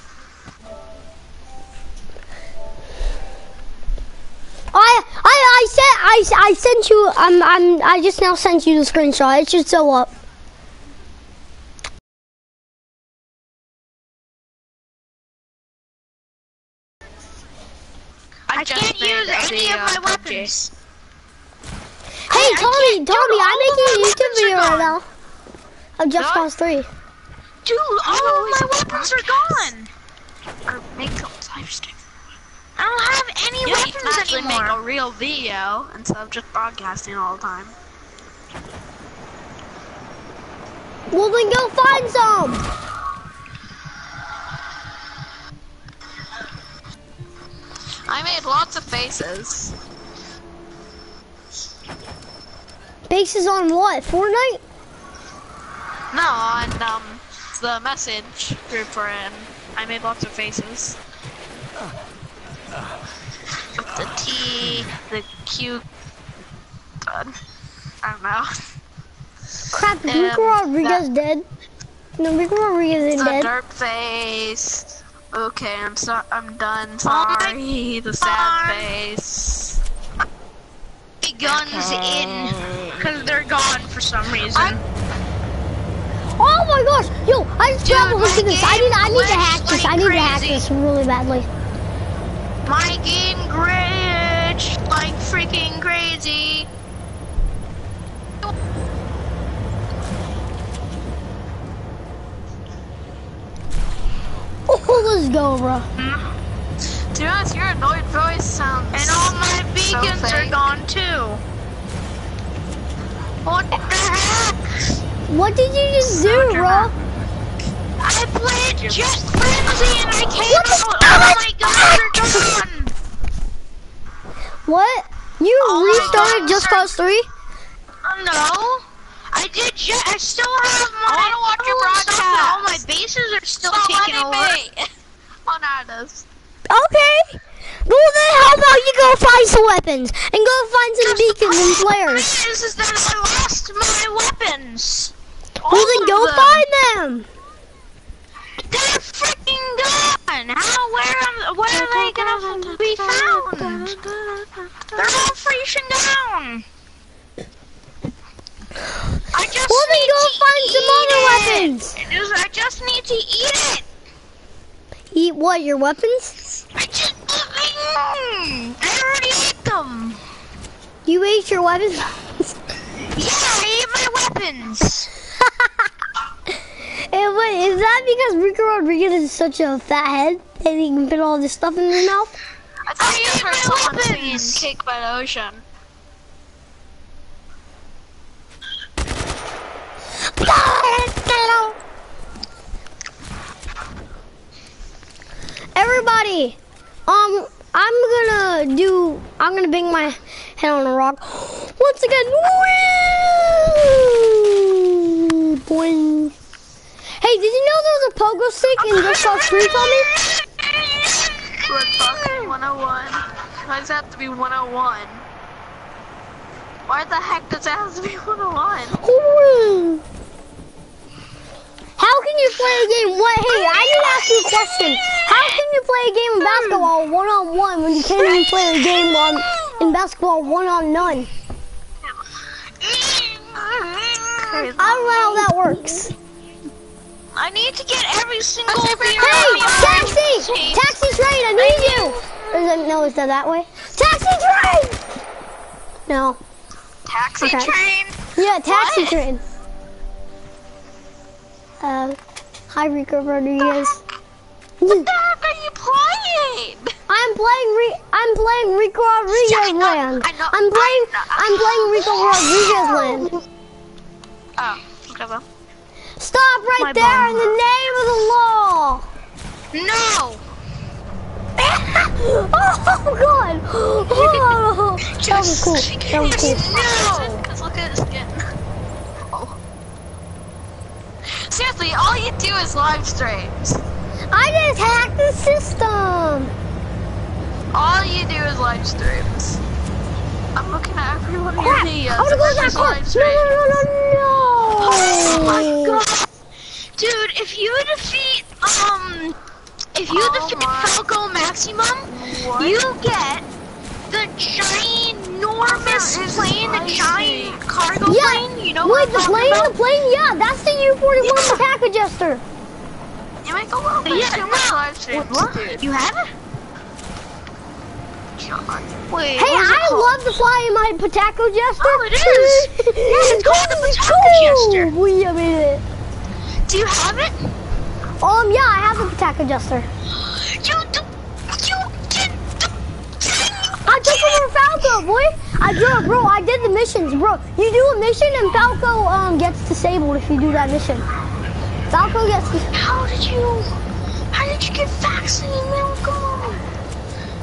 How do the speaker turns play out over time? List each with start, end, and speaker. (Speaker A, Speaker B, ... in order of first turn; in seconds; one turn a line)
Speaker A: 4.7-10.1
Speaker B: 18.5-20.5
Speaker C: 18.5-20.7
Speaker C: 22.3-25.0
Speaker A: 22.3-25.0
Speaker A: 26.0-26.9
Speaker B: 26.2-26.4
Speaker C: 27.6-29.9
Speaker B: 28.0-29.7
Speaker B: 30.7-32.0
Speaker C: 32.8-34.8
Speaker B: 33.6-37.7
Speaker A: 41.1-42.6
Speaker B: 48.0-49.8
Speaker A: 53.1-54.6
Speaker B: 56.1-61.0
Speaker B: 63.8-65.8
Speaker B: 67.0-67.3
Speaker B: 68.0-68.6
Speaker A: 69.7-71.4
Speaker B: 70.0-71.0
Speaker A: 72.2-73.5
Speaker B: 73.2-79.8
Speaker C: 77.0-77.5
Speaker C: 78.2-78.9
Speaker C: 81.2-84.8
Speaker B: 81.9-82.9
Speaker A: 86.4-91.5
Speaker C: 87.8-90.6
Speaker C: 92.7-96.7
Speaker A: 104.7-105.9
Speaker C: 106.0-106.2
Speaker B: 107.1-109.3
Speaker C: 108.9-111.4
Speaker B: 109.8-110.5
Speaker C: 113.4-114.6
Speaker A: 115.3-116.9
Speaker C: 116.1-116.9
Speaker C: 118.0-122.9
Speaker B: 118.9-119.2
Speaker A: 120.7-121.4
Speaker A: 124.7-127.3
Speaker C: 125.6-126.9
Speaker B: 125.9-126.5
Speaker C: 128.0-134.6
Speaker B: 131.1-132.8
Speaker B: 133.6-134.9
Speaker B: 135.4-136.2
Speaker A: 136.7-142.3
Speaker C: 141.0-145.1
Speaker B: 145.6-146.7
Speaker A: 145.7-147.3
Speaker C: 148.6-153.9
Speaker B: 151.7-155.3
Speaker C: 154.9-156.6
Speaker C: 159.3-163.8
Speaker A: 159.7-161.9
Speaker A: 165.1-166.4
Speaker C: 166.7-170.2
Speaker A: 171.1-172.5
Speaker C: 173.1-175.1
Speaker A: 177.1-182.3
Speaker B: 182.9-185.6
Speaker C: 183.0-184.7
Speaker A: 190.3-191.8
Speaker A: 195.8-206.3
Speaker A: 207.2-210.1
Speaker C: 208.9-211.6
Speaker B: 211.6-215.2
Speaker B: 216.9-219.0
Speaker A: 219.0-220.0
Speaker A: 222.0-231.3
Speaker C: 232.8-234.7
Speaker B: 234.4-235.5
Speaker A: 234.8-236.1
Speaker C: 237.3-240.9
Speaker B: 238.7-240.9
Speaker A: 239.2-245.0
Speaker C: 241.5-242.2
Speaker A: 246.1-246.4
Speaker B: 247.1-247.9
Speaker C: 247.4-248.1
Speaker A: 247.4-247.7
Speaker A: 248.3-249.4
Speaker B: 248.7-249.2
Speaker A: 251.8-252.2
Speaker A: 252.7-254.0
Speaker A: 254.8-255.1
Speaker B: 254.8-256.9
Speaker A: 257.1-263.3
Speaker B: 259.3-262.4
Speaker B: 264.6-265.4
Speaker A: 266.2-269.0
Speaker C: 266.8-267.5
Speaker C: 269.7-270.4
Speaker A: 271.6-276.6
Speaker C: 275.1-277.4
Speaker B: 275.3-278.5
Speaker B: 279.2-279.6
Speaker B: 281.2-283.8
Speaker A: 284.3-286.5
Speaker B: 287.7-289.6
Speaker B: 290.5-293.6
Speaker A: 291.6-296.0
Speaker C: 294.8-296.3
Speaker B: 295.2-295.7
Speaker C: 296.8-299.4
Speaker C: 299.9-303.4
Speaker B: 300.1-301.0
Speaker B: 302.1-302.8
Speaker C: 304.1-309.7
Speaker B: 305.6-307.6
Speaker A: 308.1-312.4
Speaker C: 311.2-311.6
Speaker B: 313.4-315.8
Speaker C: 314.0-316.3
Speaker B: 318.4-319.0
Speaker C: 319.1-320.2
Speaker A: 319.4-325.8
Speaker C: 321.8-324.9
Speaker C: 326.7-327.4
Speaker A: 328.2-329.9
Speaker C: 330.1-332.7
Speaker C: 333.2-334.5
Speaker A: 333.8-341.1
Speaker A: 341.9-342.7
Speaker C: 342.7-343.7
Speaker C: 344.3-346.6